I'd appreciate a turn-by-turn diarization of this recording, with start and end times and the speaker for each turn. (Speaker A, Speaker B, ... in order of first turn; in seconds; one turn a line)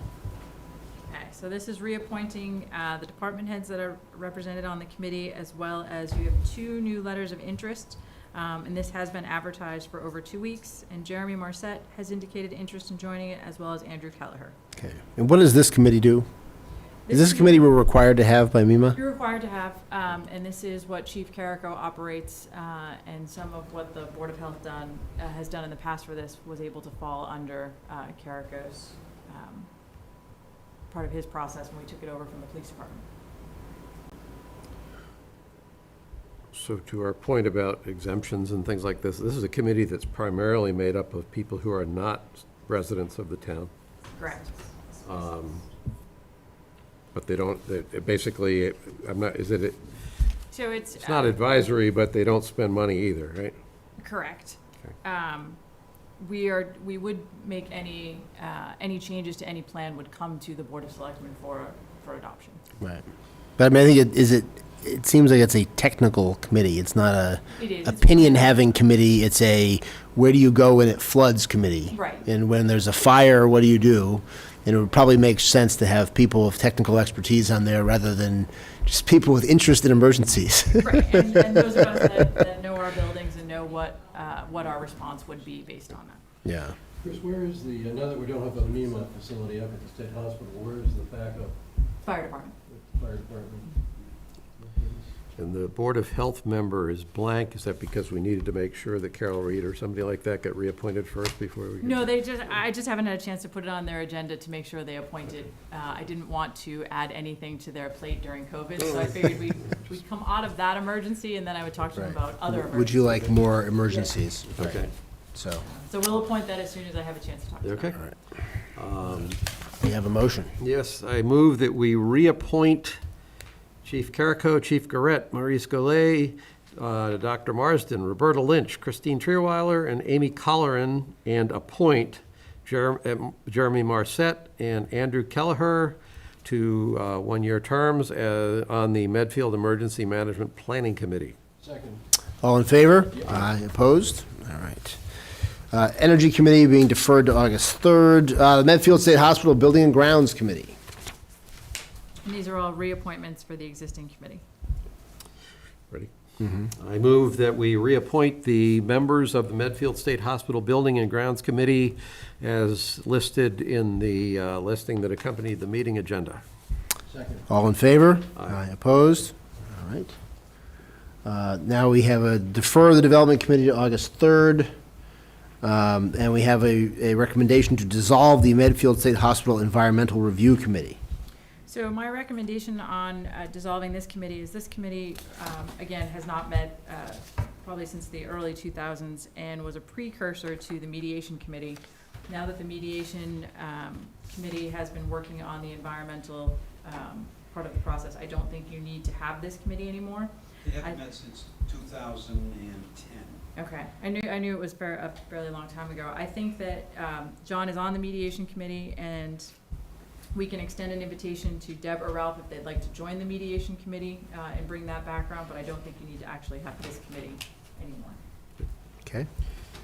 Speaker A: 1.1-14.5
Speaker B: 14.8-16.2
Speaker A: 17.1-17.7
Speaker B: 17.1-19.0
Speaker A: 18.9-29.7
Speaker A: 30.9-33.0
Speaker C: 36.5-43.7
Speaker A: 44.1-44.5
Speaker C: 45.0-45.6
Speaker C: 47.1-49.8
Speaker A: 50.5-51.4
Speaker C: 50.9-53.5
Speaker A: 54.0-55.6
Speaker A: 56.2-62.6
Speaker B: 63.6-81.4
Speaker A: 67.5-68.7
Speaker A: 71.9-72.3
Speaker A: 80.8-86.2
Speaker B: 86.4-86.8
Speaker D: 87.0-91.5
Speaker A: 92.0-92.5
Speaker D: 92.7-93.7
Speaker D: 94.6-95.1
Speaker C: 95.3-102.1
Speaker A: 101.8-114.1
Speaker B: 112.0-115.6
Speaker C: 114.6-114.9
Speaker A: 115.6-118.0
Speaker C: 117.6-118.0
Speaker C: 118.7-119.4
Speaker B: 119.8-120.5
Speaker C: 120.6-123.0
Speaker C: 123.8-141.4
Speaker D: 141.6-142.0
Speaker B: 142.4-145.0
Speaker D: 143.2-143.4
Speaker B: 145.7-150.8
Speaker A: 152.2-154.4
Speaker C: 156.8-166.4
Speaker D: 167.1-167.4
Speaker B: 167.5-170.1
Speaker C: 168.3-168.6
Speaker B: 171.2-174.7
Speaker B: 175.6-181.0
Speaker A: 181.7-201.0
Speaker E: 200.7-203.4
Speaker A: 203.6-209.5
Speaker A: 210.3-218.2